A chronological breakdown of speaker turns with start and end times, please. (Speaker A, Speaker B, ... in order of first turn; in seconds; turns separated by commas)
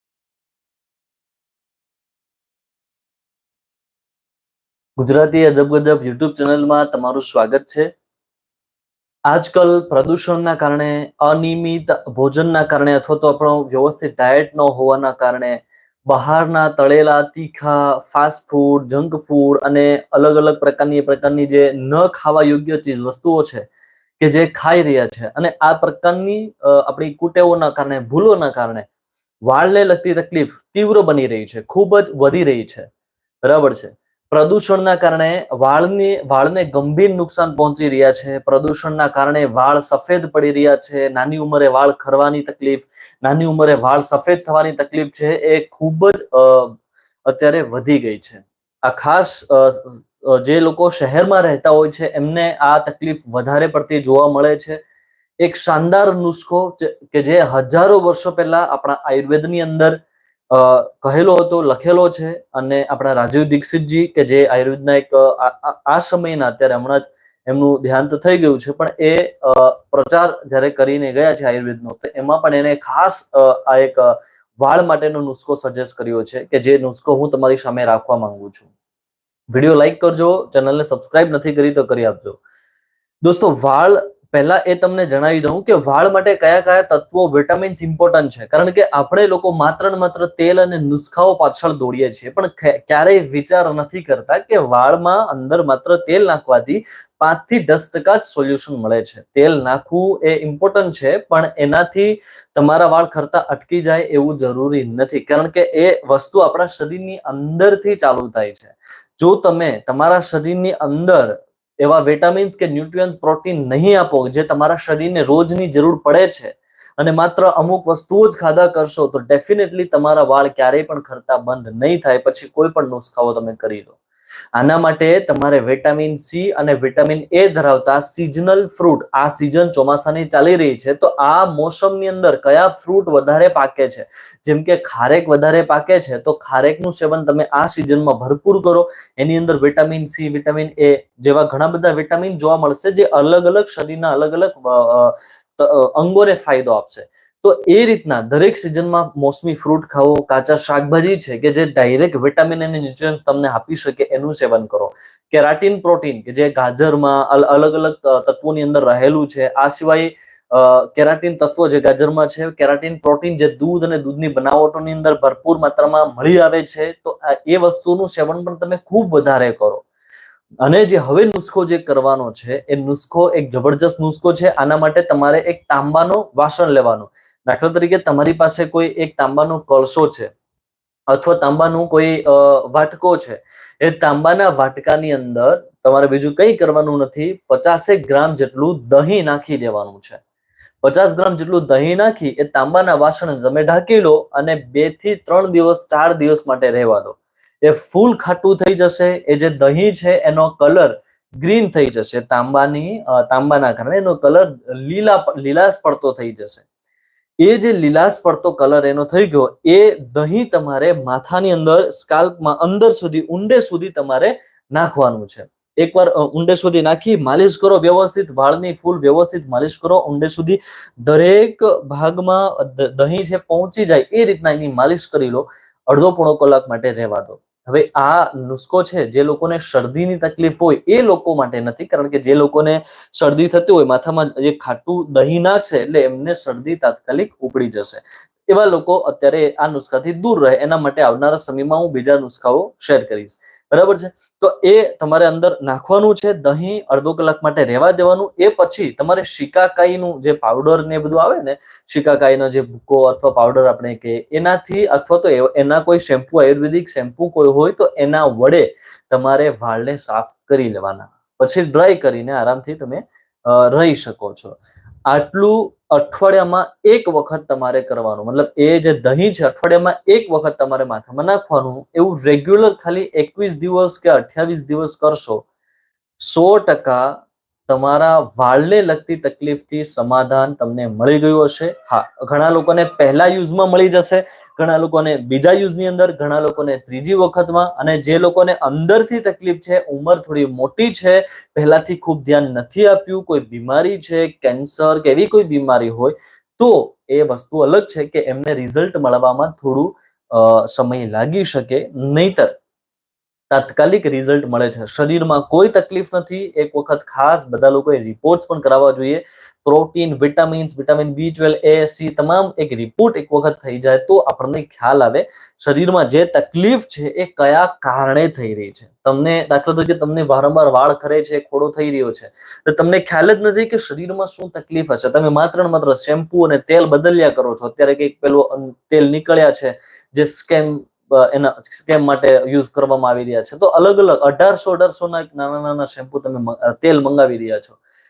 Speaker A: 5.0-7.9, Speaker A: 9.3-23.7, Speaker A: 24.2-28.9, Speaker A: 29.4-32.9, Speaker A: 33.4-46.8, Speaker A: 47.3-54.8, Speaker A: 55.4-60.0, Speaker A: 60.5-78.7, Speaker A: 79.5-82.4, Speaker A: 83.2-124.0, Speaker A: 124.5-169.8, Speaker A: 170.6-180.3, Speaker A: 181.1-190.2, Speaker A: 190.8-206.6, Speaker A: 207.4-275.4, Speaker A: 276.2-302.5, Speaker A: 303.5-337.8